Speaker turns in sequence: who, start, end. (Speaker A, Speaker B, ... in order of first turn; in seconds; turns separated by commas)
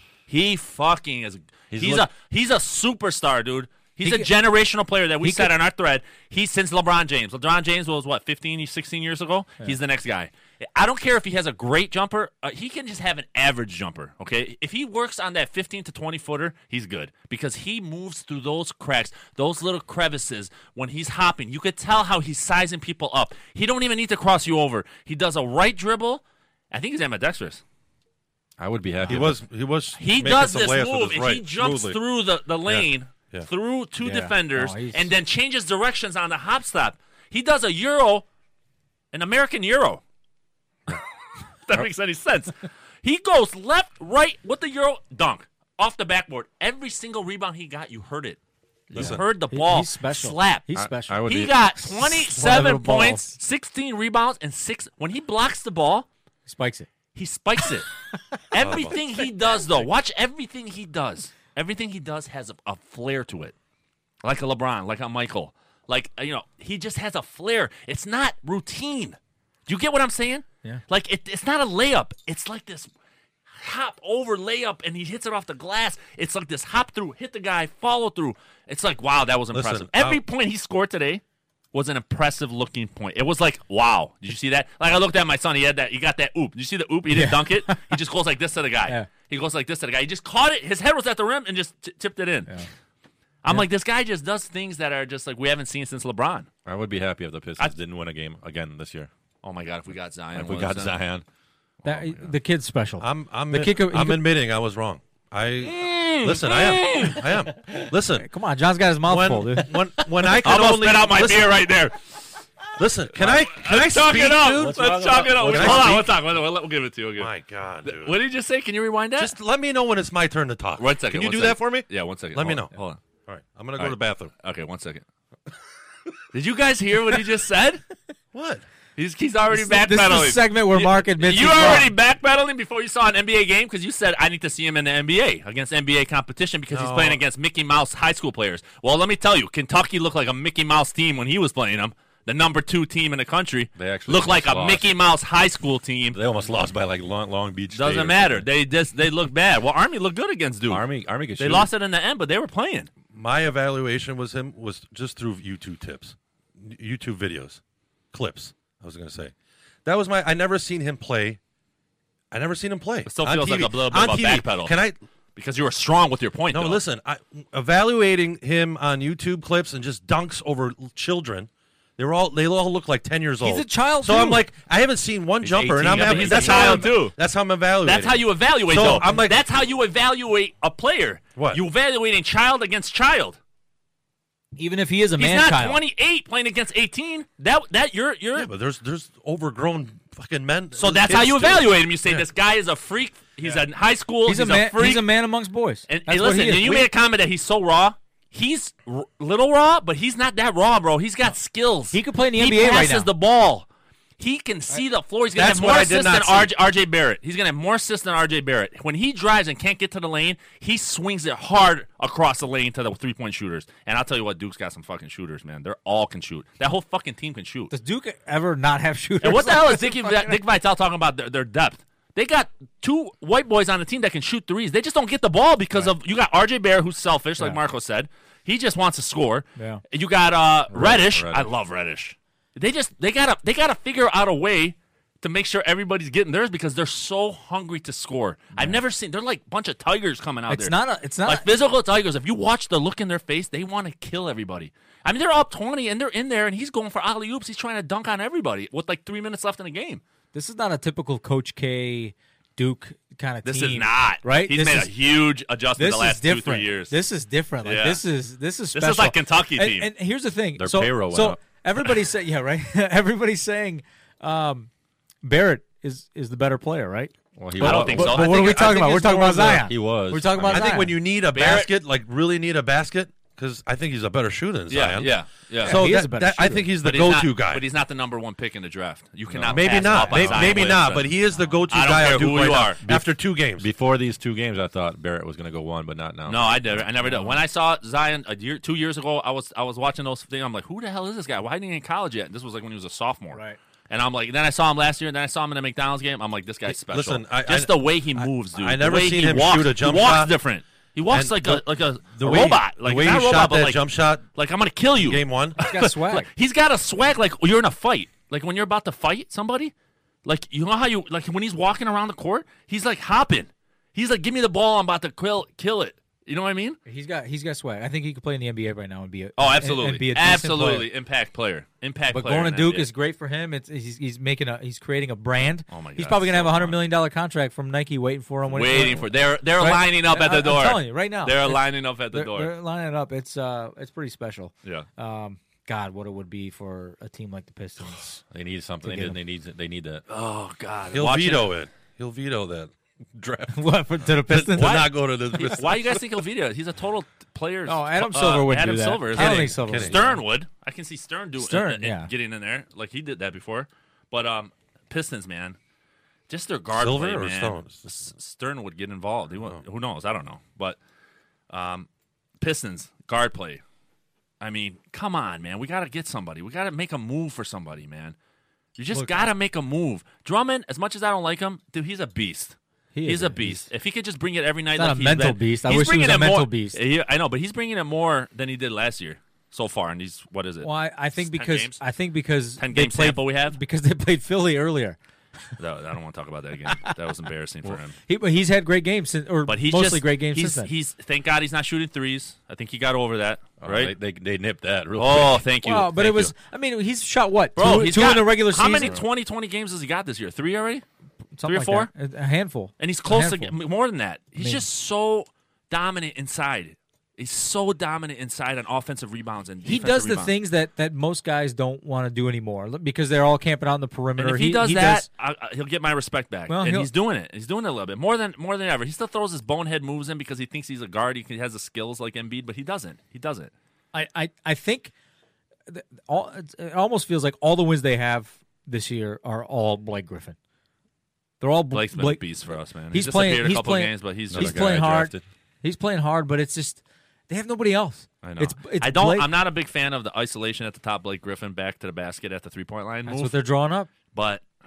Speaker A: 0.3-27.6, Speaker B: 1.7-2.1, Speaker C: 5.2-5.5, Speaker B: 28.6-29.4, Speaker D: 29.1-31.5, Speaker A: 30.0-38.2, Speaker B: 31.6-32.0, Speaker D: 32.7-33.5, Speaker C: 34.0-35.1, Speaker A: 39.1-40.0, Speaker A: 41.7-48.4, Speaker A: 48.9-56.1, Speaker B: 48.9-49.2, Speaker D: 48.9-49.2, Speaker C: 49.5-53.4, Speaker B: 50.7-51.6, Speaker C: 56.5-56.9, Speaker A: 57.1-57.9, Speaker A: 58.5-63.5, Speaker D: 58.6-59.0, Speaker A: 64.2-72.9, Speaker A: 73.5-81.2, Speaker D: 79.5-80.2, Speaker A: 81.7-92.5, Speaker C: 87.1-88.0, Speaker A: 93.4-96.5, Speaker B: 96.7-99.1, Speaker A: 99.4-101.0, Speaker B: 100.3-101.2, Speaker B: 101.8-102.3, Speaker C: 101.8-104.3, Speaker D: 103.0-108.3, Speaker A: 105.6-107.3, Speaker C: 108.2-109.7, Speaker D: 109.1-111.7, Speaker A: 110.2-112.1, Speaker D: 112.8-114.8, Speaker A: 113.2-117.3, Speaker B: 114.5-116.1, Speaker D: 115.4-116.1, Speaker D: 117.2-118.2, Speaker A: 117.8-119.3, Speaker D: 119.2-122.7, Speaker A: 120.8-123.0, Speaker D: 123.3-124.3, Speaker A: 123.8-125.0, Speaker A: 126.3-127.8, Speaker D: 128.3-128.6, Speaker A: 129.0-146.2, Speaker C: 129.5-131.9, Speaker D: 136.7-137.2, Speaker B: 143.8-144.9, Speaker B: 146.1-148.5, Speaker A: 147.7-150.8, Speaker B: 150.7-151.7, Speaker A: 151.4-152.9, Speaker D: 153.1-157.6, Speaker D: 158.1-159.3, Speaker D: 159.8-161.4, Speaker D: 162.3-165.0, Speaker A: 163.1-164.8, Speaker A: 165.4-166.8, Speaker D: 166.5-179.4, Speaker C: 173.4-174.4, Speaker B: 175.6-176.5, Speaker A: 175.6-177.2, Speaker C: 176.0-176.9, Speaker A: 177.8-183.4, Speaker D: 181.4-181.6, Speaker C: 184.6-185.8, Speaker A: 185.2-188.5, Speaker D: 188.4-191.7, Speaker A: 190.8-195.1, Speaker C: 194.3-196.9, Speaker A: 195.9-203.7, Speaker C: 201.9-203.1, Speaker A: 204.2-217.7, Speaker D: 205.3-206.5, Speaker C: 217.7-220.4, Speaker A: 219.2-250.0, Speaker C: 229.6-229.8, Speaker B: 230.7-231.5, Speaker C: 240.5-241.5, Speaker C: 250.3-254.9, Speaker A: 253.4-257.0, Speaker C: 255.8-264.7, Speaker A: 257.6-258.0, Speaker A: 258.7-259.9, Speaker B: 260.6-261.4, Speaker C: 265.2-271.0, Speaker B: 267.4-268.2, Speaker A: 267.6-269.5, Speaker D: 268.1-269.7, Speaker B: 269.6-270.8, Speaker D: 270.5-277.6, Speaker A: 271.3-271.7, Speaker A: 274.7-275.8, Speaker C: 275.6-276.7, Speaker A: 276.8-281.1, Speaker B: 279.3-280.8, Speaker D: 279.5-283.7, Speaker A: 281.7-282.8, Speaker B: 282.8-287.4, Speaker A: 286.3-309.7, Speaker C: 293.3-293.6, Speaker D: 296.7-300.3, Speaker D: 301.1-304.2, Speaker D: 305.0-305.6, Speaker C: 305.6-306.3, Speaker A: 310.2-316.8, Speaker C: 316.9-320.9, Speaker A: 319.4-322.9, Speaker C: 322.1-338.2, Speaker A: 325.7-326.8, Speaker A: 328.5-332.5, Speaker B: 338.3-340.0, Speaker C: 338.8-339.2, Speaker A: 340.1-341.5, Speaker D: 340.9-346.1, Speaker C: 343.5-344.9, Speaker A: 344.6-355.6, Speaker C: 347.7-350.2, Speaker D: 349.1-350.0, Speaker C: 351.4-352.1, Speaker A: 356.3-360.8, Speaker D: 356.8-357.8, Speaker A: 361.5-361.9, Speaker A: 362.4-363.6, Speaker A: 364.4-368.1, Speaker A: 368.8-381.8, Speaker C: 368.9-369.3, Speaker C: 372.9-373.7, Speaker C: 374.8-376.8, Speaker C: 380.6-385.0, Speaker A: 382.6-383.6, Speaker A: 385.6-387.9, Speaker C: 386.7-386.9, Speaker C: 388.1-390.7, Speaker A: 389.5-393.9, Speaker B: 393.6-395.4, Speaker A: 395.0-396.3, Speaker C: 395.6-399.0, Speaker A: 397.6-400.9, Speaker C: 401.4-403.5, Speaker A: 401.4-401.9, Speaker A: 402.8-410.3, Speaker C: 404.4-404.6, Speaker C: 409.6-415.1, Speaker A: 414.2-423.5, Speaker C: 416.5-416.9, Speaker C: 423.9-424.9, Speaker C: 425.7-430.4, Speaker C: 431.4-432.2, Speaker A: 431.7-434.6, Speaker C: 432.9-439.3, Speaker B: 434.3-435.2, Speaker A: 438.2-443.4, Speaker C: 443.1-443.9, Speaker A: 444.1-444.4